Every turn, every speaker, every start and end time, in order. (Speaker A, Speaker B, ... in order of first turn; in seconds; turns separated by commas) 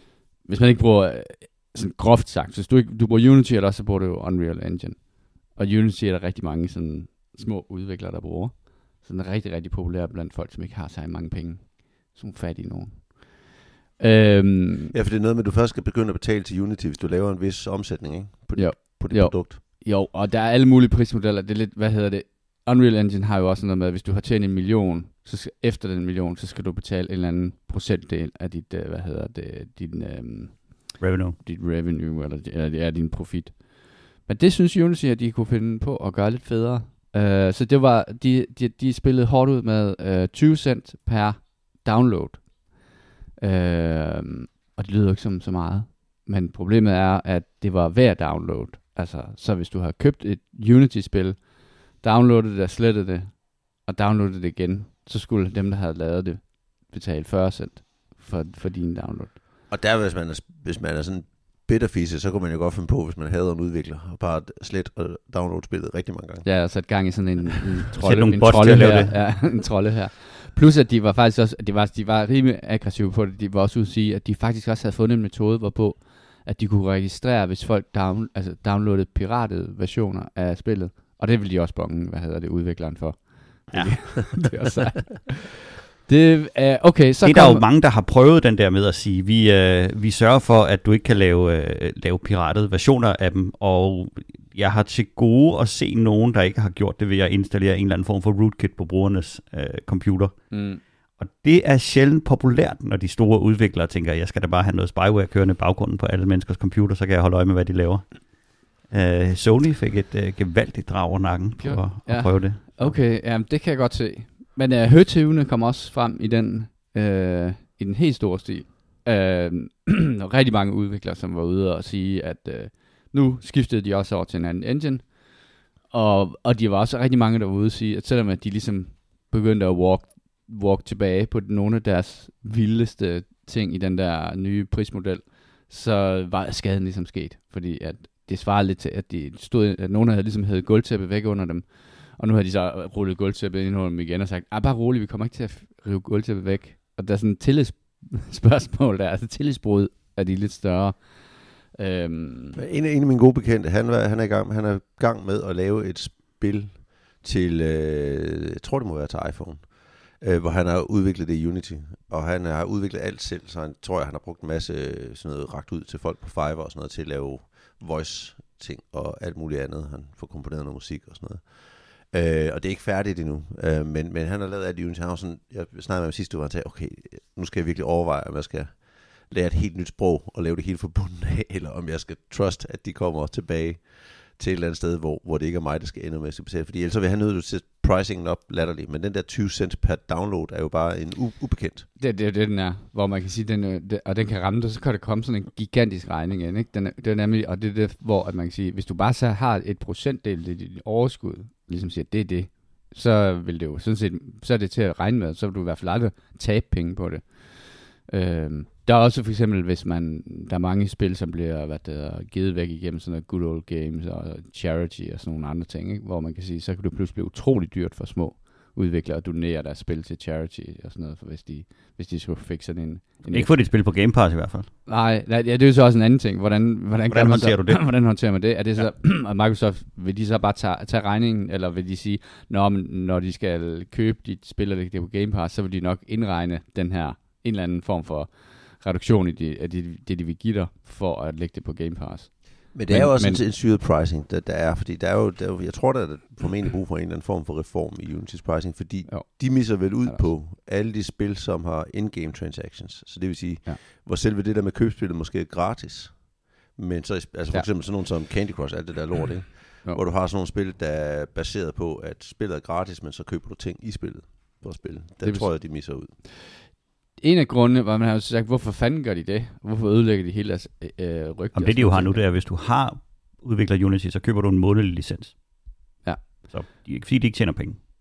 Speaker A: 0.5-14.9, Speaker B: 14.9-19.6, Speaker A: 18.5-59.4, Speaker C: 31.0-31.4, Speaker B: 59.7-66.5, Speaker A: 66.5-87.7, Speaker C: 68.0-69.2, Speaker C: 83.7-84.3, Speaker C: 87.2-100.7, Speaker A: 100.5-100.8, Speaker C: 101.2-113.0, Speaker A: 111.6-152.6, Speaker B: 152.5-191.9, Speaker A: 192.0-223.7, Speaker C: 223.3-224.7, Speaker A: 224.9-243.4, Speaker C: 227.1-228.0, Speaker B: 242.7-266.1, Speaker A: 249.1-250.3, Speaker A: 265.2-272.2, Speaker C: 271.6-275.4, Speaker A: 276.0-276.3, Speaker C: 276.4-277.8